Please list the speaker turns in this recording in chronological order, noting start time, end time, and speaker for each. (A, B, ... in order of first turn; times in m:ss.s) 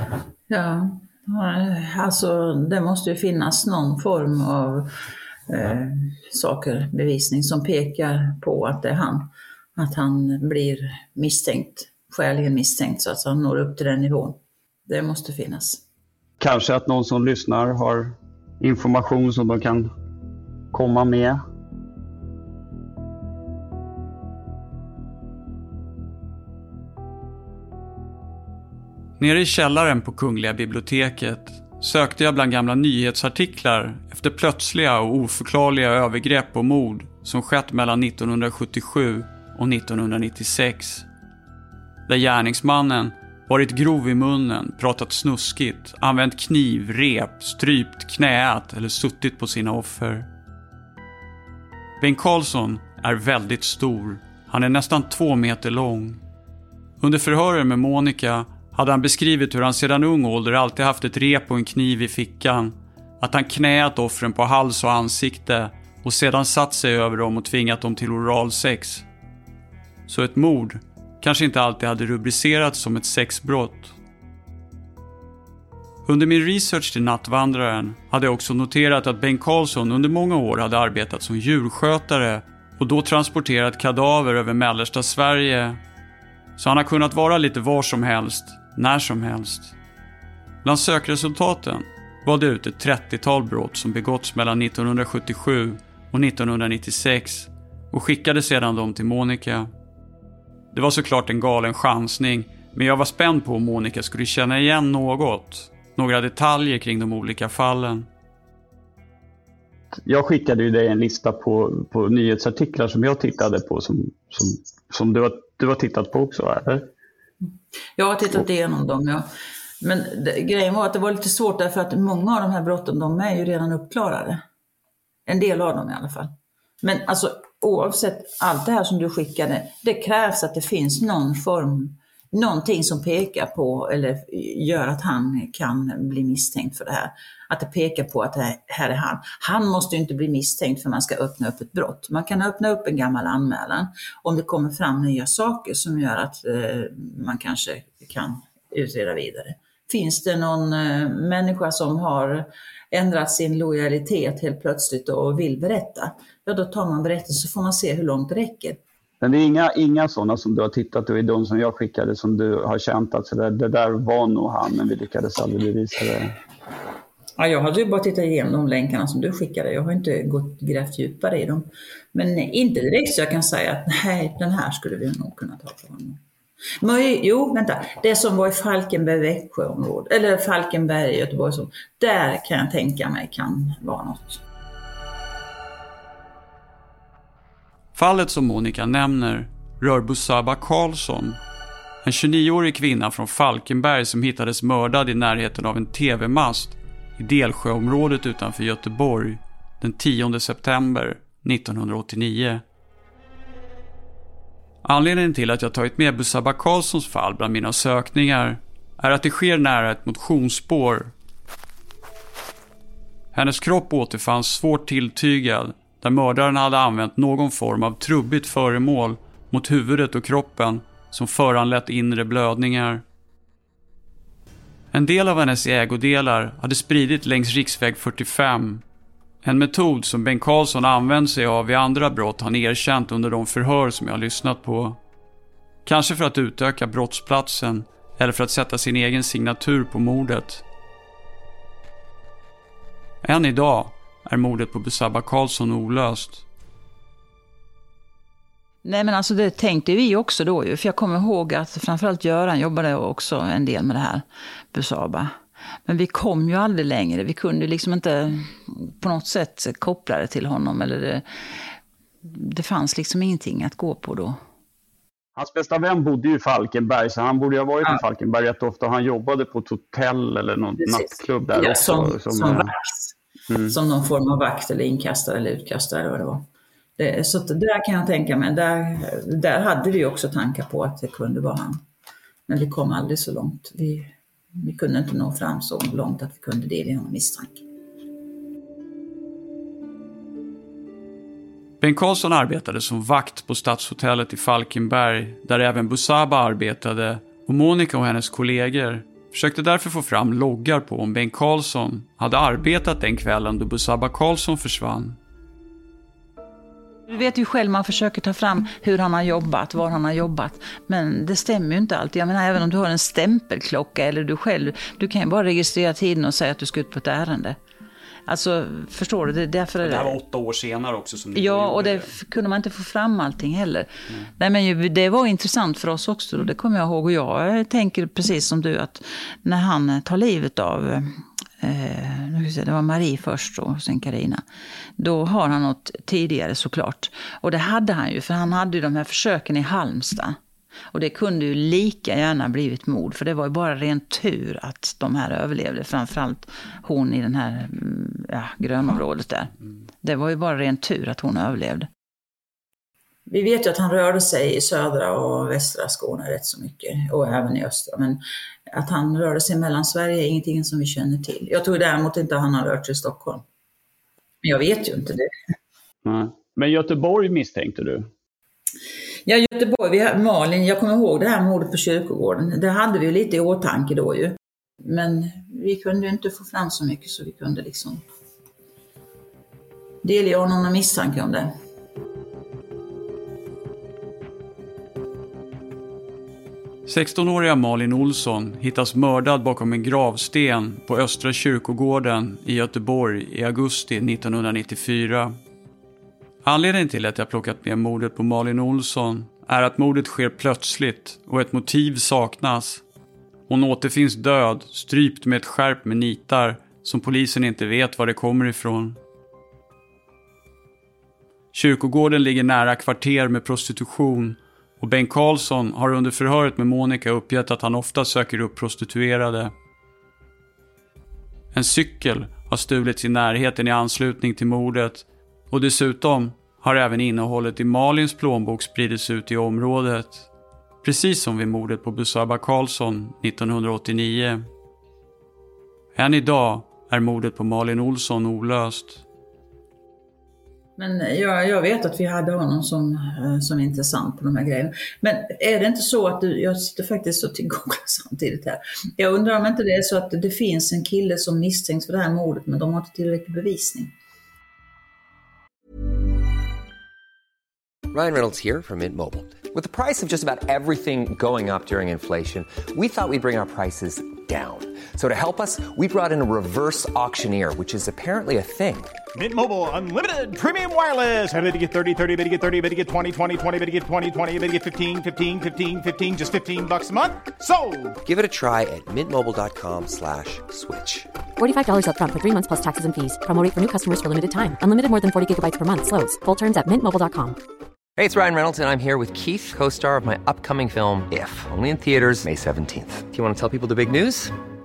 0:00.5-0:04.9 A
0:05.5-0:15.8 A
0:16.4-0:19.9 B
0:20.7-0:21.4 B
0:29.2-0:41.1 C
0:42.1-0:50.3 C
0:52.0-0:56.2 C
0:57.0-1:09.0 C
1:10.1-1:13.9 C
1:16.0-1:25.8 C
1:26.6-1:29.7 C
1:30.6-1:39.7 C
1:40.7-1:48.1 C
1:50.0-1:56.9 B
1:57.4-1:59.2 A
1:59.8-2:04.4 A
2:05.3-2:06.3 A
2:06.8-2:38.8 A
2:39.2-2:46.4 B
2:47.4-2:56.2 A
2:56.8-3:04.4 A
3:07.9-3:11.4 C
3:12.0-3:22.6 C
3:24.8-3:31.1 C
3:33.3-3:43.0 C
3:44.9-3:48.8 C
3:49.4-3:55.0 C
3:55.8-4:00.6 C
4:03.2-4:06.4 C
4:08.8-4:15.3 A
4:15.8-4:21.2 A
4:22.2-4:24.4 A
4:25.4-4:32.7 B
4:30.8-4:33.1 A
4:33.5-4:33.8 B
4:33.7-4:36.4 A
4:37.0-4:41.8 A
4:42.5-4:47.6 A
4:51.8-5:05.2 C
5:07.1-5:17.6 A
5:18.3-5:20.2 A
5:19.8-5:22.1 C
5:21.3-5:34.4 A
5:35.0-5:40.4 A
5:40.9-5:51.9 A
5:53.3-6:03.4 A
6:04.4-6:05.3 A
6:06.0-6:08.1 B
6:09.2-6:18.0 A
6:20.0-6:21.5 A
6:26.8-6:35.4 C
6:36.4-6:42.8 C
6:43.5-6:49.0 C
6:51.5-6:59.5 C
7:01.5-7:10.3 C
7:10.8-7:14.4 C
7:15.9-7:19.0 C
7:20.8-7:33.9 A
7:37.9-7:48.9 D
7:49.1-7:58.0 E
7:58.0-8:01.1 D
8:01.4-8:07.4 F
8:08.0-8:14.3 D